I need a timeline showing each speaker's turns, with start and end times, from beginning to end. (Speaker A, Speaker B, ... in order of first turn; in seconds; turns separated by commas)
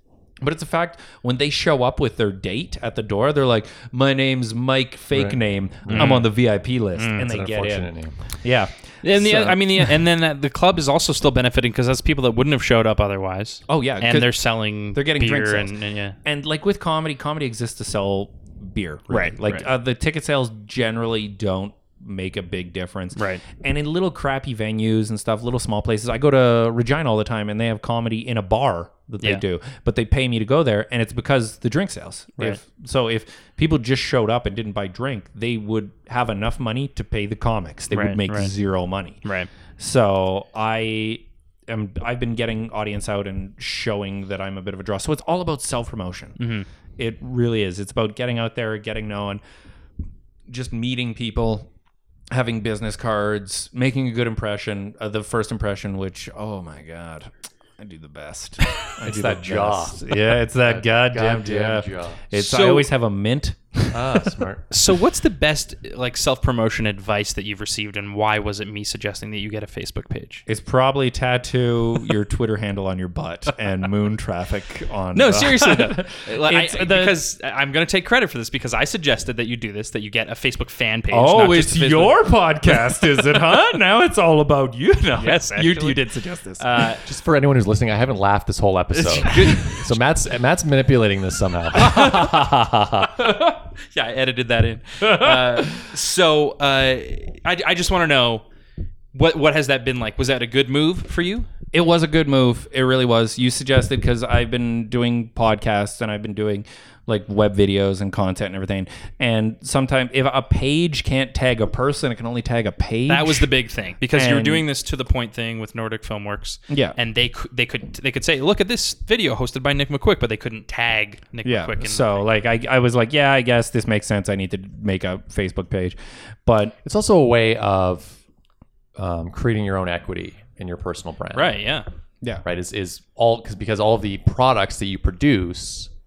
Speaker A: 0.4-10.0, Speaker B: 5.1-6.2, Speaker C: 5.9-6.3, Speaker C: 7.0-7.3, Speaker B: 7.1-8.2, Speaker C: 9.0-16.1, Speaker A: 13.7-14.3, Speaker A: 14.9-39.2, Speaker C: 19.1-19.7, Speaker C: 23.1-23.4, Speaker C: 37.9-38.5, Speaker C: 39.2-39.5, Speaker A: 39.8-46.4, Speaker C: 46.4-46.6, Speaker A: 47.0-49.4, Speaker A: 50.5-51.7, Speaker A: 52.3-64.4, Speaker B: 59.0-62.2, Speaker C: 62.3-62.9, Speaker B: 63.9-64.7, Speaker C: 64.7-70.4, Speaker A: 70.5-77.2, Speaker C: 75.1-83.2, Speaker A: 81.1-86.9, Speaker C: 85.1-86.0, Speaker C: 86.6-87.0, Speaker B: 87.0-93.1, Speaker C: 89.0-89.9, Speaker A: 91.8-92.6, Speaker C: 93.2-98.5, Speaker A: 95.0-95.8, Speaker C: 99.1-101.5, Speaker A: 101.7-113.5, Speaker C: 113.1-122.2, Speaker A: 114.1-114.6, Speaker A: 116.7-117.0, Speaker A: 121.4-126.8, Speaker B: 126.8-128.2, Speaker B: 128.9-131.6, Speaker C: 131.3-131.8, Speaker B: 132.4-135.9